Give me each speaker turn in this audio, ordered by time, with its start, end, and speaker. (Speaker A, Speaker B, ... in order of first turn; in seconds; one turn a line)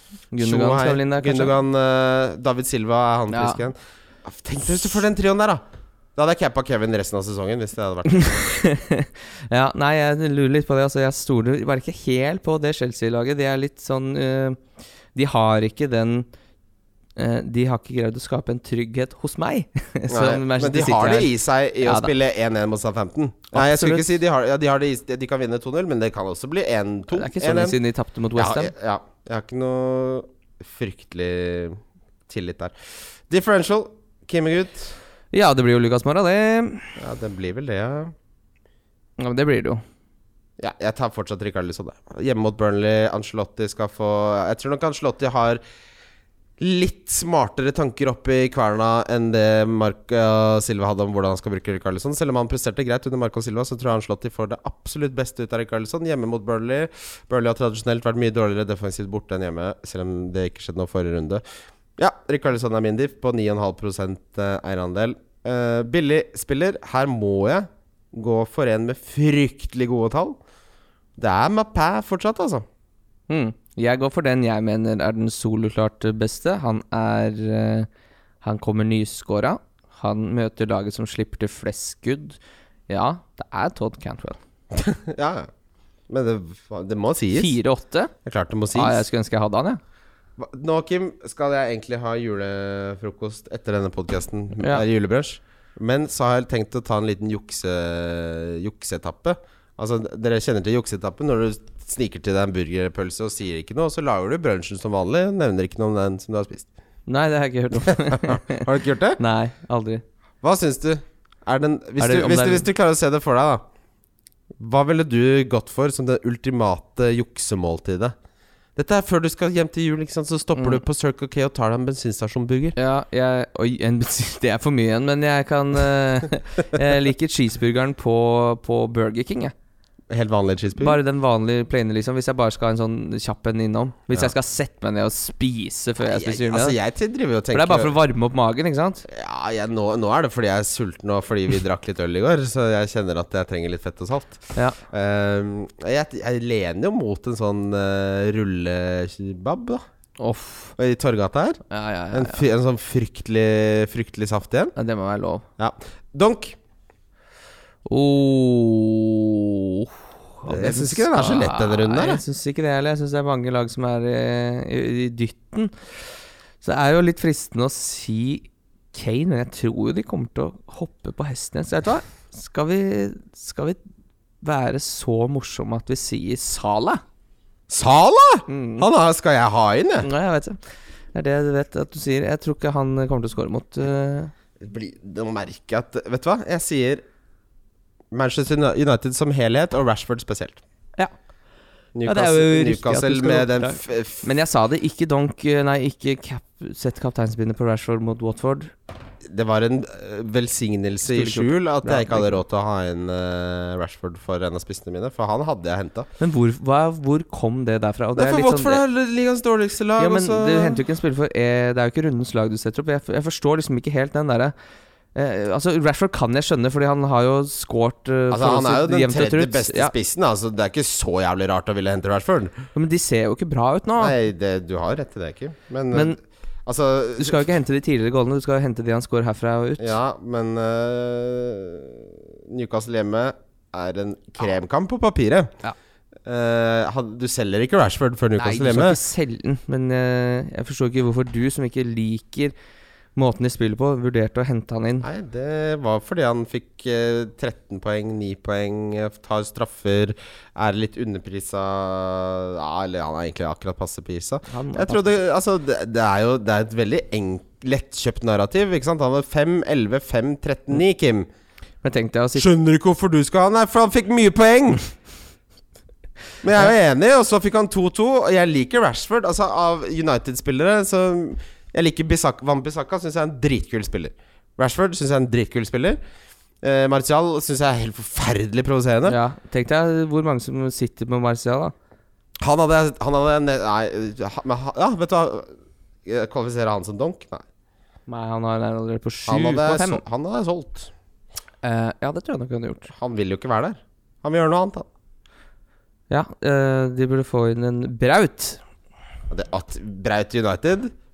Speaker A: 0.3-1.5
Speaker B: 0.4-5.6
Speaker A: 3.3-3.6
Speaker B: 6.2-8.2
Speaker A: 8.1-14.6
Speaker A: 15.2-16.3
Speaker A: 17.2-21.3
Speaker B: 20.1-27.8
Speaker A: 21.8-22.1
Speaker A: 23.5-24.1
Speaker A: 27.1-28.7
Speaker B: 28.4-35.0
Speaker A: 35.3-36.9
Speaker B: 37.0-38.1
Speaker A: 39.2-39.8
Speaker B: 40.6-45.6
Speaker B: 46.6-61.4
Speaker B: 62.0-70.4
Speaker B: 71.2-72.7
Speaker A: 73.3-77.9
Speaker A: 78.4-84.4
Speaker B: 84.7-85.5
Speaker B: 86.1-87.5
Speaker A: 87.3-88.1
Speaker B: 88.2-89.0
Speaker A: 88.7-89.8
Speaker B: 90.4-106.7
Speaker A: 107.1-110.0
Speaker B: 107.9-109.2
Speaker B: 110.4-113.6
Speaker A: 112.0-112.7
Speaker B: 114.6-118.1
Speaker B: 118.8-122.8
Speaker A: 120.6-120.8
Speaker A: 122.8-129.5
Speaker B: 130.1-131.0
Speaker A: 130.8-136.8
Speaker B: 136.0-137.9
Speaker A: 137.5-139.0
Speaker B: 139.1-149.8
Speaker A: 150.2-150.8
Speaker B: 150.8-154.8
Speaker A: 151.7-152.4
Speaker A: 154.8-155.4
Speaker B: 155.6-156.6
Speaker A: 157.9-165.8
Speaker B: 160.5-162.2
Speaker A: 166.6-173.8
Speaker A: 174.4-177.0
Speaker B: 177.7-180.1
Speaker A: 178.5-178.9
Speaker A: 180.0-180.6
Speaker A: 181.1-184.3
Speaker B: 184.6-187.0
Speaker B: 188.1-190.6
Speaker B: 191.9-194.2
Speaker A: 192.1-198.7
Speaker B: 199.2-206.1
Speaker A: 201.1-202.4
Speaker A: 206.2-208.8
Speaker B: 208.2-210.8
Speaker A: 210.0-214.5
Speaker A: 215.2-219.9
Speaker B: 218.3-222.5
Speaker A: 222.8-224.2
Speaker B: 224.0-227.5
Speaker A: 225.9-226.2
Speaker A: 227.2-230.0
Speaker B: 229.8-235.5
Speaker B: 236.3-239.0
Speaker A: 238.4-242.5
Speaker A: 243.2-245.1
Speaker B: 245.0-261.3
Speaker A: 254.5-255.1
Speaker A: 261.8-262.5
Speaker B: 262.4-264.9
Speaker B: 266.4-276.0
Speaker B: 276.6-279.2
Speaker A: 279.1-281.7
Speaker B: 282.4-285.5
Speaker B: 286.1-287.4
Speaker A: 288.1-290.0
Speaker B: 289.3-290.9
Speaker A: 291.6-292.9
Speaker B: 292.9-294.9
Speaker A: 296.1-298.6
Speaker B: 299.3-300.9